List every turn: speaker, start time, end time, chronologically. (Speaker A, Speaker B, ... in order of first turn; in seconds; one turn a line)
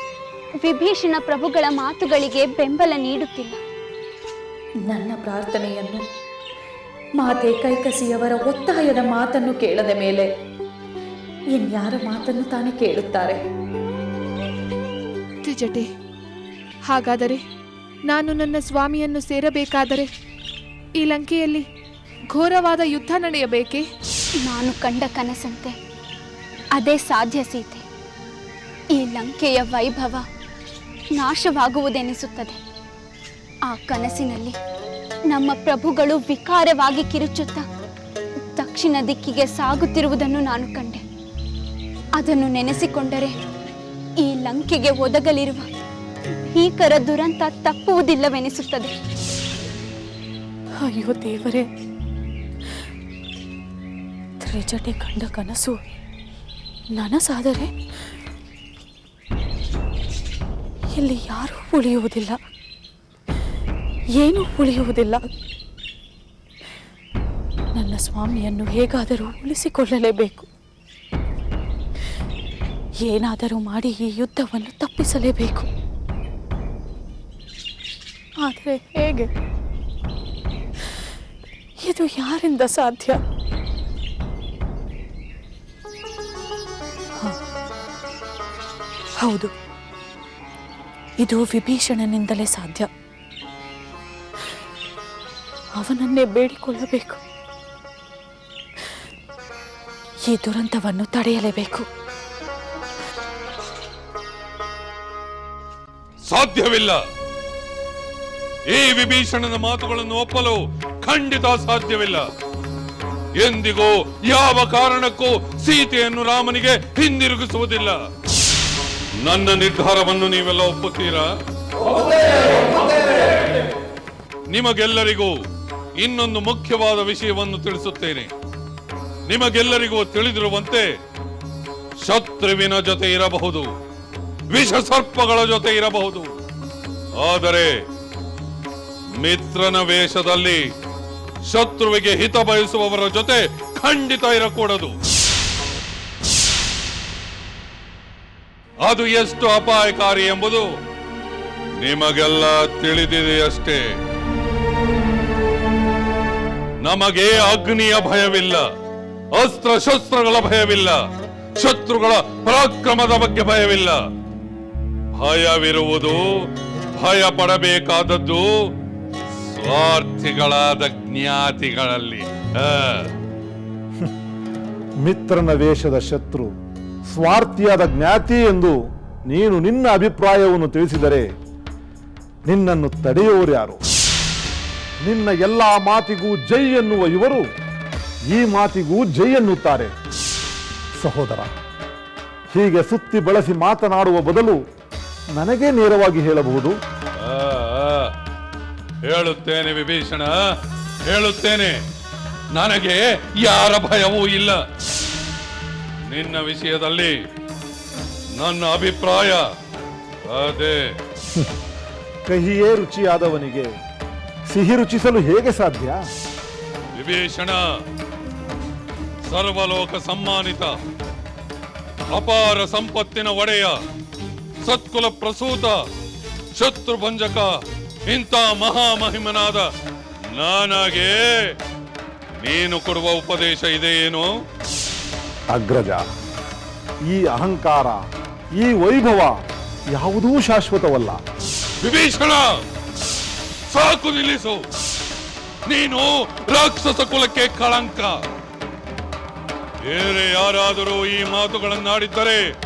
Speaker A: 0.6-3.6
Speaker B: 4.8-6.0
Speaker B: 7.2-10.3
Speaker B: 11.5-13.4
Speaker C: 15.4-15.8
Speaker C: 16.9-17.4
Speaker C: 18.1-20.1
Speaker C: 21.0-21.6
Speaker C: 22.3-23.8
Speaker A: 24.5-25.7
Speaker A: 26.8-27.8
Speaker A: 28.9-30.2
Speaker A: 31.2-32.6
Speaker A: 33.7-34.5
Speaker A: 35.3-37.6
Speaker A: 38.5-41.0
Speaker A: 42.2-43.3
Speaker A: 44.2-45.6
Speaker A: 46.5-48.9
Speaker B: 50.8-51.7
Speaker B: 54.4-55.8
Speaker B: 56.9-57.7
Speaker B: 60.9-62.4
Speaker B: 64.2-65.2
Speaker B: 67.7-70.5
Speaker B: 73.0-75.7
Speaker B: 78.4-79.3
Speaker B: 81.8-83.2
Speaker B: 89.2-89.5
Speaker B: 91.2-92.9
Speaker B: 95.8-97.2
Speaker B: 100.3-101.9
Speaker D: 106.2-107.0
Speaker D: 108.7-112.2
Speaker D: 113.4-118.0
Speaker D: 119.2-121.3
Speaker D: 124.5-125.3
Speaker D: 126.0-128.3
Speaker D: 129.3-130.9
Speaker D: 132.0-133.7
Speaker D: 134.5-136.3
Speaker D: 137.2-137.7
Speaker D: 139.2-140.6
Speaker D: 141.5-144.9
Speaker D: 148.8-150.7
Speaker D: 151.8-153.8
Speaker D: 156.8-158.6
Speaker D: 159.4-161.0
Speaker D: 161.6-164.0
Speaker D: 165.1-166.2
Speaker D: 167.0-168.4
Speaker D: 169.5-173.1
Speaker E: 175.0-176.5
Speaker E: 177.1-178.7
Speaker E: 179.3-181.2
Speaker E: 182.5-183.8
Speaker E: 185.0-187.4
Speaker E: 188.3-189.9
Speaker E: 191.0-191.5
Speaker E: 192.5-194.6
Speaker E: 195.4-196.8
Speaker D: 197.2-198.1
Speaker D: 199.1-200.3
Speaker D: 201.1-201.8
Speaker D: 202.5-204.6
Speaker D: 206.1-207.1
Speaker D: 208.4-209.4
Speaker D: 210.3-210.8
Speaker E: 212.3-213.7
Speaker E: 214.5-216.0
Speaker D: 216.9-217.6
Speaker D: 219.3-220.7
Speaker D: 222.1-223.8
Speaker D: 224.6-225.8
Speaker D: 226.6-227.5
Speaker D: 228.1-229.7
Speaker D: 230.3-231.4
Speaker D: 232.4-234.3
Speaker E: 235.5-236.0
Speaker E: 237.1-238.0
Speaker E: 238.6-239.3
Speaker E: 239.9-241.2
Speaker D: 241.8-242.5
Speaker D: 243.7-244.6
Speaker D: 245.7-248.2
Speaker D: 249.9-252.4